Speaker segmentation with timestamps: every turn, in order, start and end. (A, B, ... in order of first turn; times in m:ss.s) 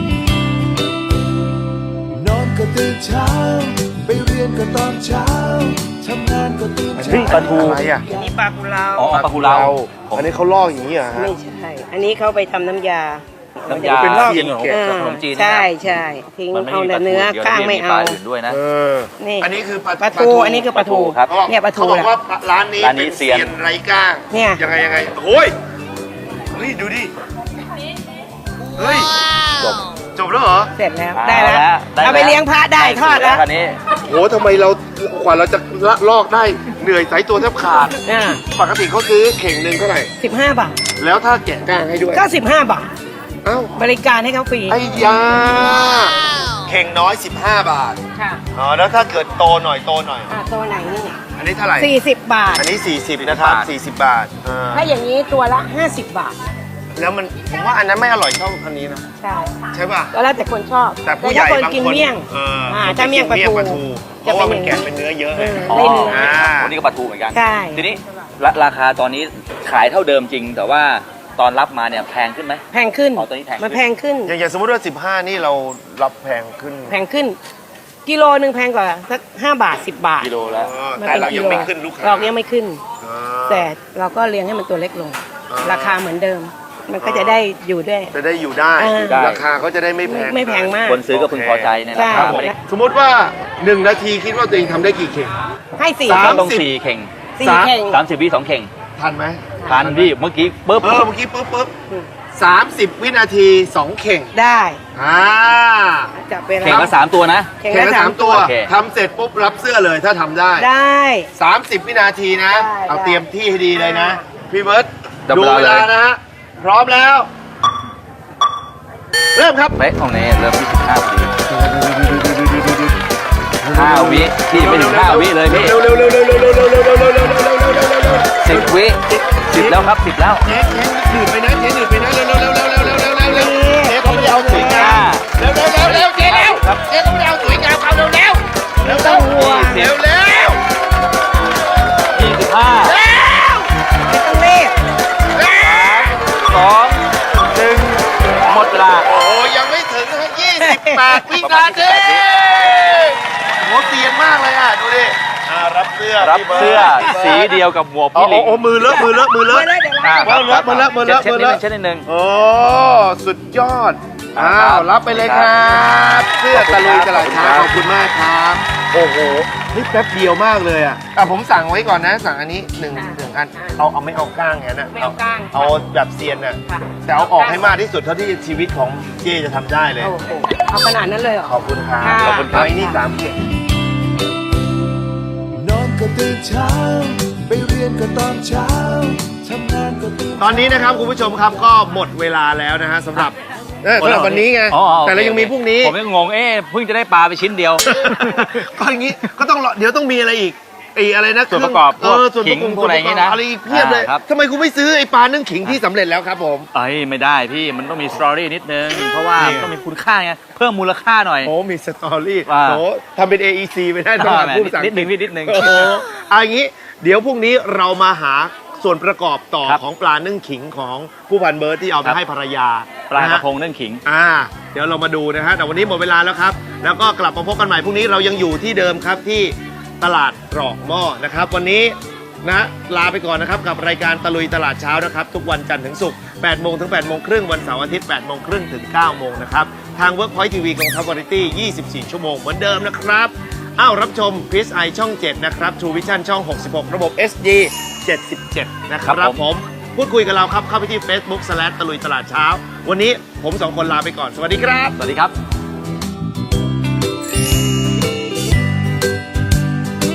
0:02.2-0:08.3 A
0:07.0-0:08.1 B
0:07.1-0:07.8 C
0:07.4-0:09.2 D
0:09.0-0:10.3 C
0:09.0-0:11.4 B
0:11.1-0:18.2 D
0:13.6-0:16.0 C
0:13.7-0:15.0 B
0:16.5-0:18.6 C
0:18.5-0:20.7 B
0:19.2-0:22.2 D
0:20.6-0:21.3 C
0:21.3-0:25.6 B
0:22.8-0:23.5 C
0:24.3-0:24.6 D
0:26.5-0:27.1 B
0:28.8-0:29.1 B
0:30.2-0:30.7 B
0:30.8-0:33.4 D
0:31.1-0:33.8 C
0:34.0-0:38.0 B
0:38.1-0:38.4 D
0:38.5-0:40.1 B
0:40.2-0:40.8 D
0:41.0-0:42.3 B
0:42.1-0:42.9 D
0:43.4-0:43.7 B
0:43.8-0:44.8 D
0:44.7-0:48.0 B
0:48.5-0:50.4 B
0:50.3-0:51.2 D
0:51.4-0:51.9 B
0:51.8-0:52.7 D
0:52.5-0:54.9 B
0:53.2-0:53.7 C
0:54.7-0:56.4 D
0:57.0-0:59.0 B
0:59.2-0:59.6 D
0:59.7-1:00.1 B
1:00.1-1:06.4 D
1:01.0-1:06.8 B
1:05.7-1:13.8 C
1:07.3-1:08.0 D
1:12.7-1:14.3 D
1:14.3-1:17.0 B
1:16.9-1:17.4 D
1:18.1-1:20.4 D
1:20.2-1:20.7 C
1:20.5-1:22.3 B
1:20.9-1:22.8 D
1:21.3-1:21.7 C
1:23.0-1:23.7 B
1:23.5-1:28.1 D
1:25.5-1:26.0 B
1:27.0-1:27.4 B
1:28.1-1:35.3 B
1:28.8-1:29.3 D
1:29.0-1:29.5 C
1:30.0-1:31.1 D
1:30.8-1:32.5 C
1:31.9-1:32.6 D
1:35.8-1:36.5 D
1:36.0-1:36.7 B
1:36.1-1:37.1 C
1:37.4-1:38.0 D
1:37.4-1:37.8 B
1:37.8-1:38.7 C
1:39.0-1:40.1 B
1:39.7-1:41.1 C
1:40.8-1:41.7 B
1:42.3-1:44.3 B
1:44.3-1:44.8 D
1:45.0-1:46.1 B
1:46.1-1:47.0 D
1:46.6-1:47.5 C
1:47.6-1:48.5 D
1:47.6-1:50.7 B
1:48.3-1:48.7 C
1:50.6-1:51.3 D
1:51.3-1:57.3 B
1:52.5-1:54.2 D
1:55.3-1:55.9 C
1:59.4-1:59.8 B
1:59.7-2:01.3 C
2:01.5-2:03.0 B
2:03.6-2:09.8 B
2:03.7-2:05.8 C
2:08.4-2:10.4 C
2:10.4-2:20.6 B
2:13.2-2:15.1 D
2:14.4-2:15.3 C
2:15.8-2:16.8 C
2:18.8-2:20.0 D
2:22.1-2:22.9 C
2:22.8-2:23.7 B
2:24.1-2:24.8 D
2:25.3-2:26.2 B
2:25.6-2:29.1 C
2:29.0-2:37.6 B
2:30.6-2:31.3 D
2:31.2-2:32.2 C
2:36.2-2:38.6 C
2:36.9-2:37.2 D
2:38.1-2:39.7 B
2:38.8-2:40.4 D
2:40.0-2:42.1 C
2:40.2-3:00.1 B
2:44.4-2:45.9 C
2:46.5-2:47.7 C
2:52.9-2:53.8 D
2:54.9-2:55.8 D
2:56.7-2:57.7 D
3:00.0-3:03.0 D
3:01.4-3:03.4 B
3:02.1-3:02.8 C
3:05.6-3:10.8 A
3:10.4-3:16.0 B
3:14.0-3:18.7 C
3:17.9-3:26.7 B
3:21.5-3:24.2 C
3:26.7-3:31.5 C
3:29.4-3:29.7 B
3:31.4-3:43.4 B
3:32.5-3:32.8 C
3:34.2-3:36.0 C
3:43.1-3:44.0 C
3:44.0-4:15.0 B
4:09.0-4:09.4 C
4:15.0-4:15.3 C